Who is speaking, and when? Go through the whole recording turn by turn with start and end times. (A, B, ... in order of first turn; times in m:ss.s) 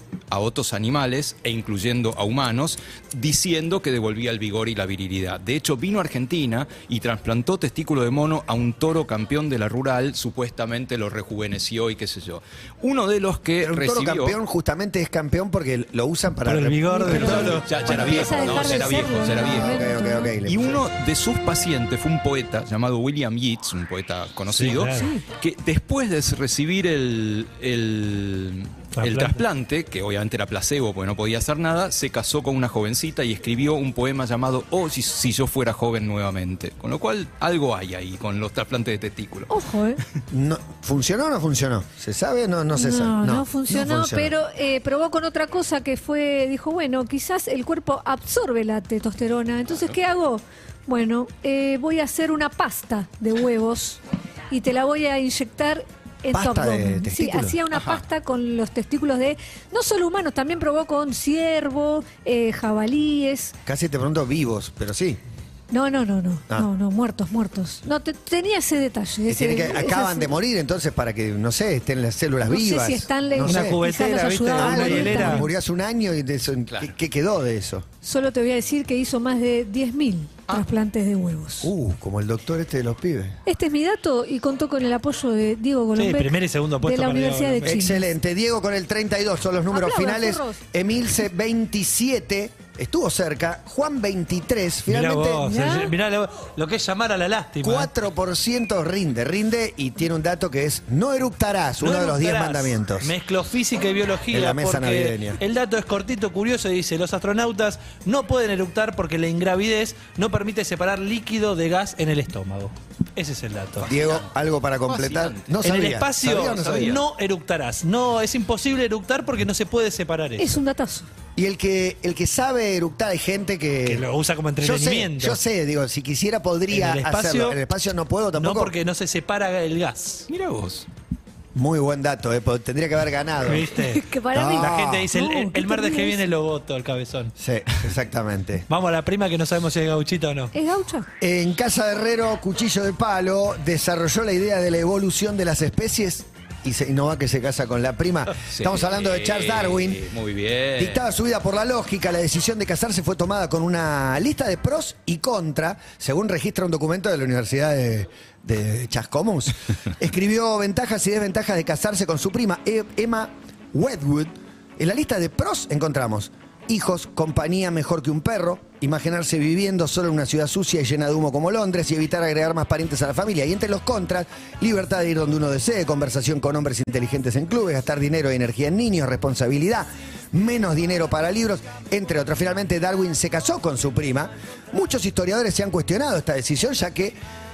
0:00.3-0:14.4 A
0:13.6-0:20.8 B
0:16.4-0:17.7 C
0:16.9-0:20.3 D
0:17.6-0:19.8 A
0:20.4-0:39.5 A
0:24.5-0:25.1 C
0:24.9-0:25.2 D
0:29.0-0:29.4 C
0:39.5-0:40.0 D
0:40.3-0:44.3 B
0:42.8-0:54.0 D
0:54.5-1:03.5 D
0:56.3-0:57.6 B
0:57.7-0:58.0 A
1:03.6-1:05.2 B
1:05.7-1:10.3 D
1:09.3-1:13.8 B
1:12.4-1:15.5 D
1:13.4-1:15.4 C
1:14.5-1:17.8 B
1:18.0-1:21.7 D
1:21.6-1:23.4 B
1:23.4-1:28.0 D
1:25.9-1:27.8 C
1:27.6-1:35.5 B
1:29.7-1:30.6 D
1:34.9-1:37.9 C
1:35.4-1:35.9 D
1:37.6-1:43.1 B
1:41.8-1:53.9 C
1:44.3-1:45.4 B
1:53.8-1:54.3 A
1:53.8-1:57.0 B
1:54.8-1:55.6 A
1:55.6-2:00.6 C
1:56.2-1:57.0 A
2:00.4-2:01.1 D
2:01.4-2:04.0 B
2:03.8-2:05.4 C
2:04.6-2:08.7 B
2:06.7-2:07.6 C
2:08.4-2:10.3 C
2:10.3-2:10.9 A
2:11.5-2:13.7 B
2:13.4-2:14.0 C
2:13.8-2:16.2 D
2:14.3-2:15.1 B
2:14.5-2:17.3 C
2:17.4-2:18.7 B
2:18.7-2:20.5 C
2:20.5-2:21.1 D
2:21.2-2:30.0 B
2:28.5-2:31.0 A
2:30.8-3:07.2 B